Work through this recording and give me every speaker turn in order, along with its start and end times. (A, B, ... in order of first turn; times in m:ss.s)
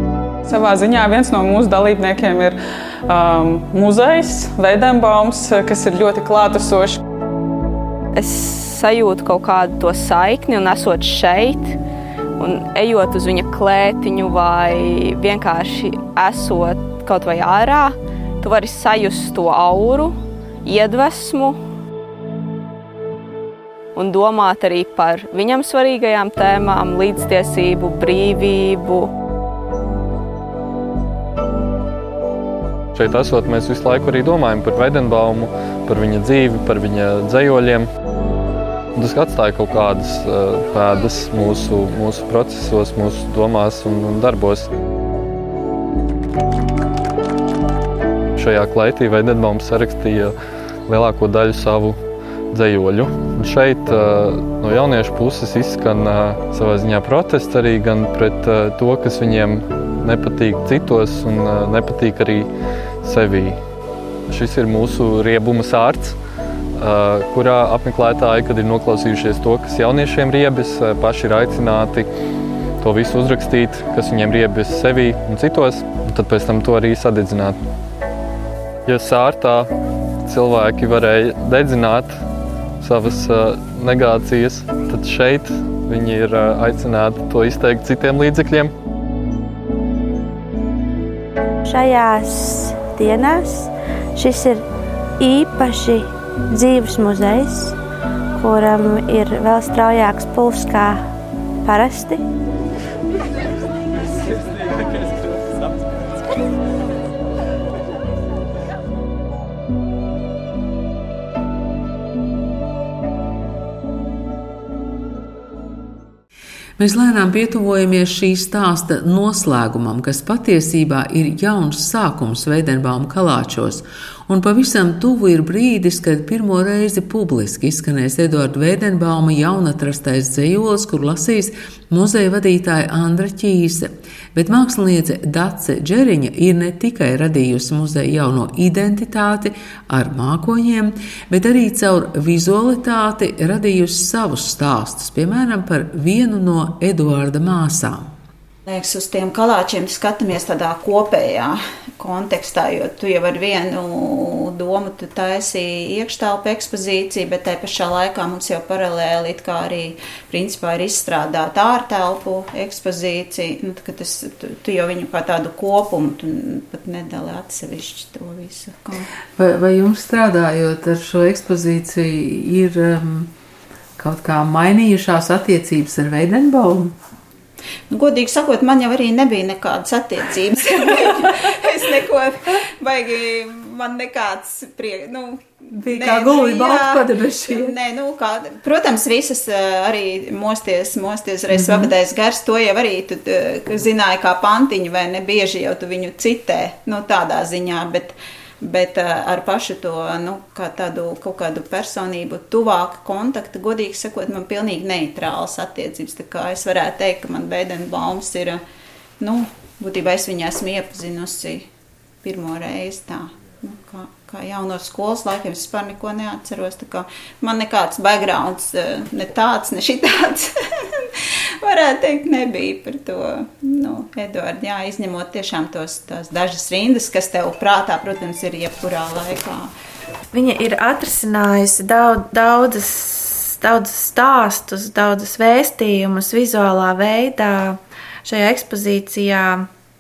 0:00.4-0:07.0 A
0:08.2-0:11.8 B
0:12.4-0:21.6 B
0:24.0-0:29.1 B
0:33.0-0:37.9 C
0:39.0-0:44.7 C
0:48.4-0:50.3 C
0:50.9-0:52.0 C
0:52.5-1:02.5 C
1:03.0-1:03.6 C
1:04.3-1:06.1 C
1:06.8-1:12.1 C
1:12.8-1:17.6 C
1:18.9-1:19.7 C
1:20.3-1:22.1 C
1:22.8-1:28.7 C
1:31.6-1:34.6 D
1:35.2-1:37.8 D
1:38.4-1:41.0 D
1:41.6-1:42.2 D
1:56.8-2:28.1 E
2:28.7-2:49.1 F
2:49.4-2:53.3 E
2:54.0-2:57.0 E
2:57.9-3:28.6 F
3:05.7-3:07.8 E
3:11.5-3:11.9 E
3:29.2-3:31.7 F
3:32.2-3:41.1 F
3:41.6-3:49.7 F
3:50.3-3:59.7 G